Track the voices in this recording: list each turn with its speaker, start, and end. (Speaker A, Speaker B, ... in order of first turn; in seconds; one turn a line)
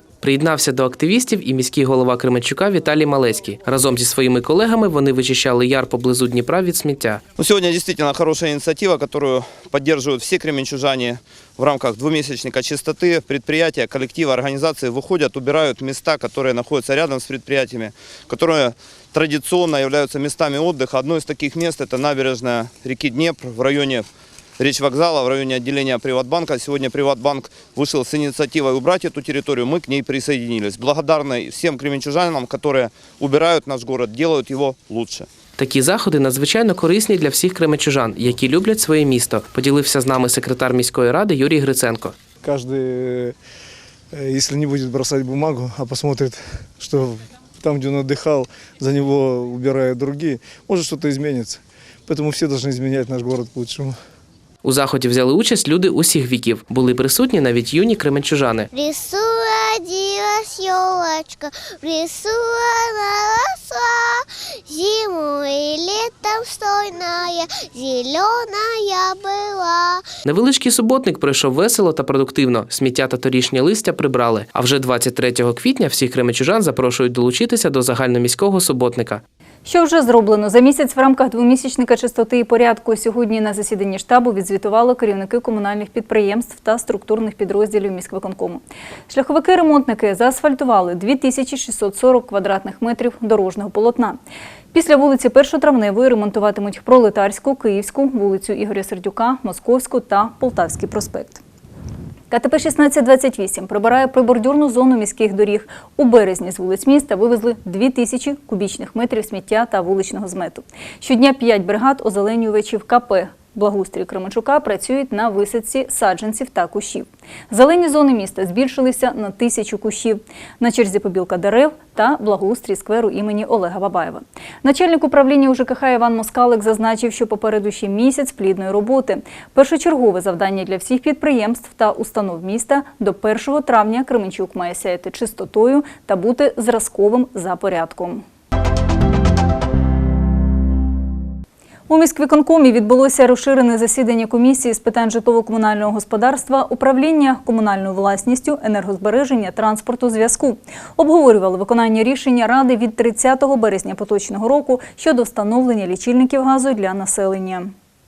Speaker A: 0.2-7.2
Speaker B: 7.4-24.1
Speaker B: 24.6-35.3
Speaker A: 35.6-42.1
Speaker C: 42.4-43.3
Speaker C: 44.1-54.0
Speaker A: 54.6-58.7
Speaker D: 58.7-63.1
Speaker D: 65.5-65.8
Speaker D: 68.5-69.8
Speaker A: 70.2-79.2
Speaker E: 79.7-94.2
Speaker E: 94.7-101.4
Speaker E: 102.3-138.2
Speaker E: 141.9-157.7